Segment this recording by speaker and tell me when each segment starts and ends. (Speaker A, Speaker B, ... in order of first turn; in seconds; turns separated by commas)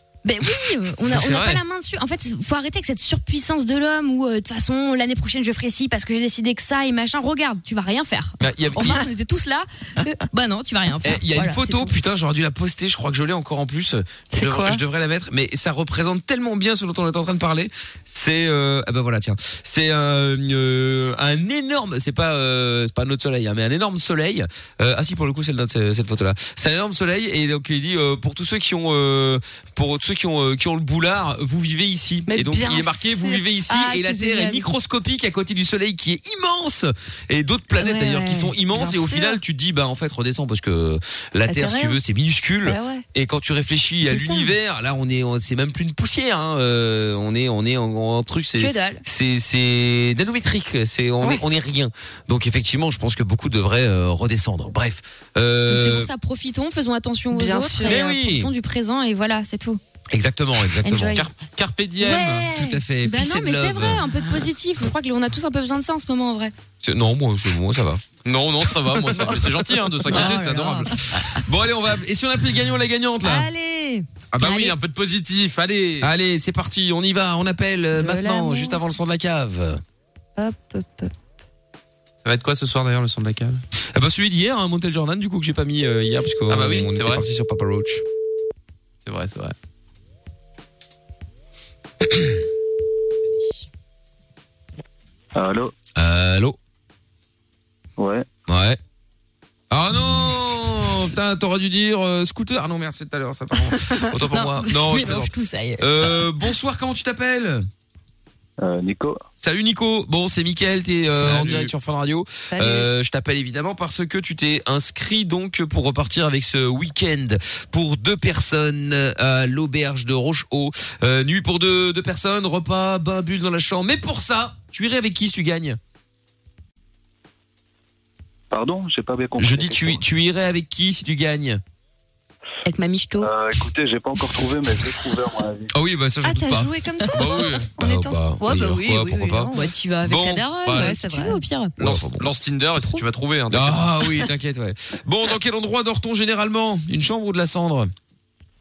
Speaker A: 0.2-11.9, Speaker B: 1.1-1.6, Speaker B: 8.4-9.0, Speaker B: 11.0-56.1, Speaker C: 14.3-14.8, Speaker C: 32.3-34.7, Speaker A: 37.8-38.5, Speaker C: 38.7-39.4, Speaker C: 41.5-42.0, Speaker C: 42.6-43.0, Speaker A: 44.1-44.5, Speaker A: 48.6-49.0, Speaker A: 55.7-59.8, Speaker C: 57.3-58.0, Speaker B: 57.8-58.5, Speaker B: 60.1-61.2, Speaker A: 60.8-61.3, Speaker D: 61.1-62.5, Speaker C: 62.0-62.8, Speaker B: 62.4-64.3, Speaker A: 63.0-66.5, Speaker B: 66.8-68.0, Speaker D: 68.2-71.0, Speaker B: 68.9-70.5, Speaker A: 70.1-70.9, Speaker B: 71.1-73.5, Speaker C: 73.2-74.1, Speaker D: 74.3-76.1, Speaker A: 74.4-74.7, Speaker B: 76.0-79.8, Speaker C: 78.0-78.8, Speaker C: 80.4-81.1, Speaker D: 82.2-83.6, Speaker B: 83.9-88.0, Speaker D: 86.5-87.2, Speaker D: 89.0-89.5, Speaker E: 95.3-95.7, Speaker B: 96.0-96.6, Speaker E: 98.0-98.3, Speaker B: 98.5-98.8, Speaker B: 99.7-107.7, Speaker A: 103.7-106.2, Speaker E: 108.6-109.2, Speaker B: 109.4-125.8, Speaker D: 111.2-111.7, Speaker C: 112.5-112.9, Speaker E: 128.5-130.0, Speaker B: 129.4-131.6, Speaker A: 132.7-133.3, Speaker E: 133.2-135.7, Speaker B: 135.7-139.5, Speaker C: 136.2-139.7, Speaker D: 137.2-137.7, Speaker A: 139.5-141.8, Speaker B: 140.0-140.6, Speaker C: 140.7-141.4, Speaker B: 141.8-142.3, Speaker D: 141.8-143.9, Speaker B: 143.5-147.9